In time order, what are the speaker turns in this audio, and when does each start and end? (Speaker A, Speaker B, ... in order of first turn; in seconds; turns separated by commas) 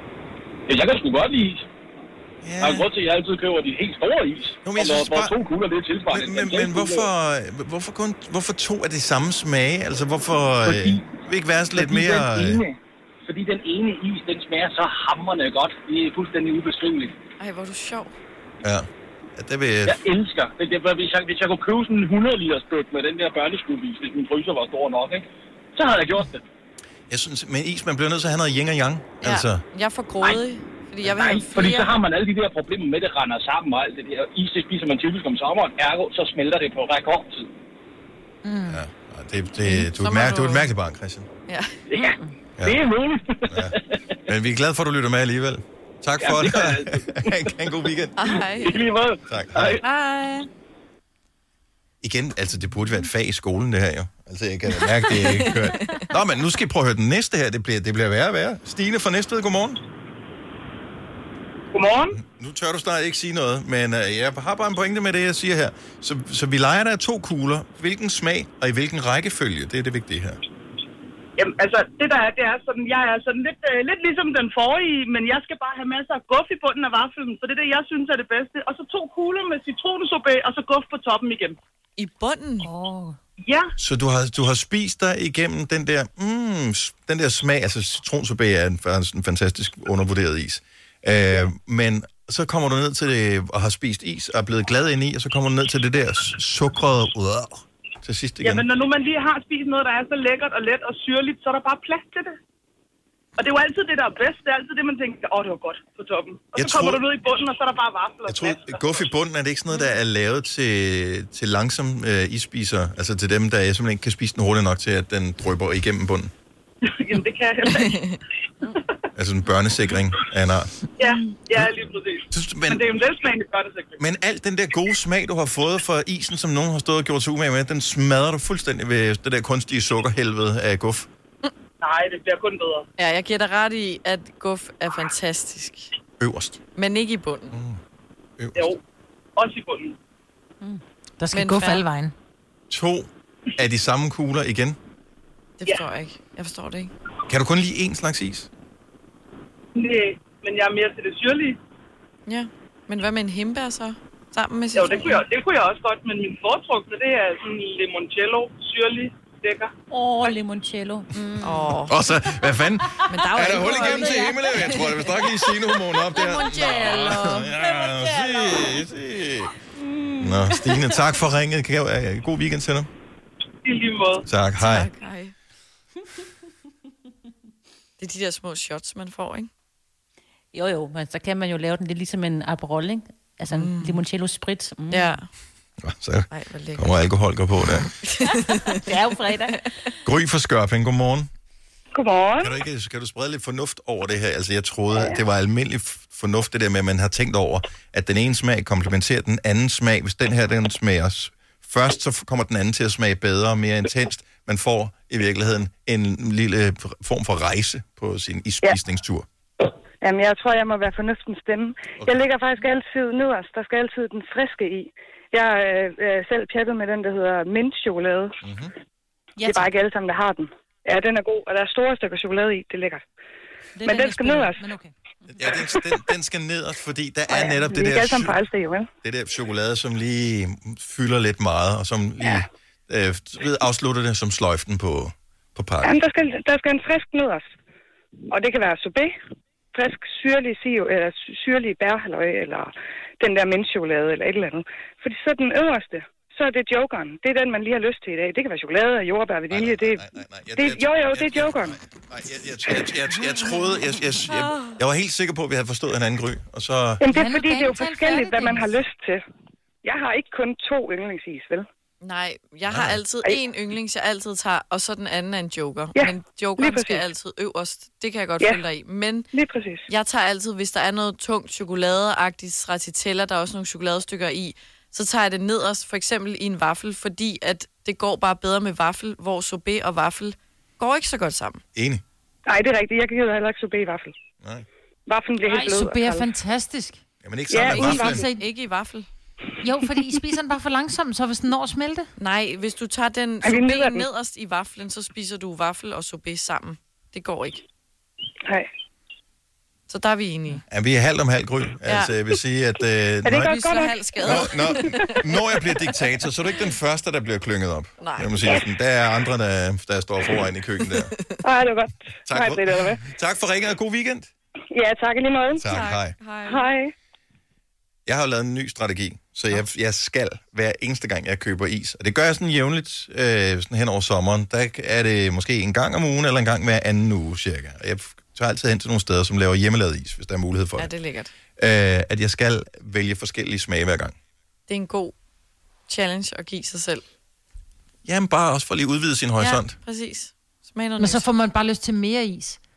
Speaker A: 0.7-1.6, Speaker B: 2.4-2.9, Speaker A: 2.6-7.1, Speaker B: 4.6-5.3, Speaker B: 6.1-12.6, Speaker A: 10.6-11.1, Speaker A: 11.7-17.2, Speaker C: 17.4-18.1, Speaker B: 18.6-20.0, Speaker A: 19.8-26.4, Speaker B: 27.1-29.6, Speaker C: 29.2-31.9, Speaker A: 31.0-37.5, Speaker D: 38.4-38.8, Speaker B: 38.7-41.3, Speaker C: 39.9-40.7, Speaker C: 41.5-41.8, Speaker A: 41.9-44.0, Speaker E: 41.9-42.2, Speaker B: 43.5-43.8, Speaker B: 44.3-48.3, Speaker A: 46.2-47.5, Speaker C: 48.2-48.8, Speaker A: 48.4-49.8, Speaker B: 49.3-49.8, Speaker E: 49.8-50.5, Speaker B: 52.0-59.8, Speaker C: 55.1-55.8, Speaker F: 61.7-62.2, Speaker B: 62.1-70.4, Speaker F: 71.4-81.6, Speaker C: 82.0-82.7, Speaker E: 82.6-83.2, Speaker F: 83.4-83.7, Speaker B: 83.8-98.7, Speaker F: 98.4-102.4, Speaker F: 103.4-109.1, Speaker B: 106.5-107.0, Speaker B: 108.3-116.3, Speaker F: 116.8-118.2, Speaker C: 117.8-118.1, Speaker B: 119.1-120.7, Speaker F: 121.0-124.0, Speaker B: 122.3-122.9, Speaker B: 124.0-131.1, Speaker F: 131.8-132.9, Speaker C: 133.0-135.9, Speaker B: 136.2-136.6, Speaker C: 136.8-137.6, Speaker B: 137.5-137.8, Speaker B: 138.4-138.7, Speaker F: 139.3-139.9, Speaker D: 141.2-142.1, Speaker C: 141.3-141.8, Speaker B: 142.7-144.8, Speaker C: 145.6-146.9, Speaker B: 147.3-148.5, Speaker F: 149.7-151.6, Speaker C: 152.3-155.2, Speaker F: 154.7-159.7, Speaker E: 159.9-161.8, Speaker C: 161.1-161.9, Speaker B: 161.9-169.5, Speaker C: 163.1-165.4, Speaker E: 163.5-164.7, Speaker C: 166.0-167.5, Speaker E: 167.6-168.7, Speaker E: 169.8-170.8, Speaker B: 170.2-172.9, Speaker F: 173.6-174.2, Speaker B: 174.2-174.9, Speaker C: 174.6-175.3, Speaker C: 178.0-179.5, Speaker E: 180.5-185.2, Speaker C: 183.5-184.0, Speaker C: 184.9-185.3, Speaker B: 185.8-187.9, Speaker C: 186.3-186.9, Speaker C: 188.0-189.7, Speaker E: 188.7-189.6, Speaker B: 190.0-191.3, Speaker G: 191.9-192.6, Speaker B: 192.4-209.2, Speaker G: 194.9-195.2, Speaker G: 209.6-218.4, Speaker B: 212.0-212.2, Speaker B: 218.4-218.7, Speaker D: 219.4-219.7, Speaker G: 219.4-223.0, Speaker D: 223.8-224.9, Speaker G: 223.8-224.6, Speaker B: 225.3-228.4, Speaker G: 225.4-225.8, Speaker G: 227.3-228.9, Speaker B: 229.0-235.9, Speaker G: 235.8-237.5, Speaker G: 238.3-239.2, Speaker G: 239.7-250.0, Speaker B: 249.5-257.0, Speaker G: 250.6-251.8, Speaker G: 257.0-259.2, Speaker D: 257.1-258.7, Speaker G: 259.8-261.7, Speaker C: 262.0-269.3, Speaker B: 262.7-263.0, Speaker G: 265.9-267.1, Speaker G: 269.3-269.9, Speaker C: 269.9-281.6, Speaker B: 281.7-282.0, Speaker G: 282.5-284.1, Speaker G: 285.1-286.3, Speaker D: 285.4-287.0, Speaker B: 287.2-288.2, Speaker G: 287.5-288.2, Speaker D: 287.6-288.4, Speaker C: 287.8-289.1, Speaker D: 289.6-292.1, Speaker C: 292.2-297.6, Speaker G: 293.4-294.1, Speaker C: 299.9-300.6, Speaker B: 300.7-303.6, Speaker C: 301.9-302.1, Speaker G: 303.2-305.0, Speaker C: 303.3-305.2, Speaker B: 304.2-311.1, Speaker C: 308.0-308.6, Speaker G: 308.4-308.7, Speaker G: 311.4-313.0, Speaker B: 312.3-314.3, Speaker G: 314.7-315.7, Speaker B: 315.5-316.1, Speaker C: 315.7-316.7, Speaker G: 316.4-316.9, Speaker B: 318.1-330.9, Speaker C: 330.8-331.3, Speaker B: 331.6-334.1, Speaker C: 334.7-335.1, Speaker C: 335.9-337.0, Speaker B: 338.0-339.7, Speaker C: 339.4-341.2, Speaker D: 341.0-342.6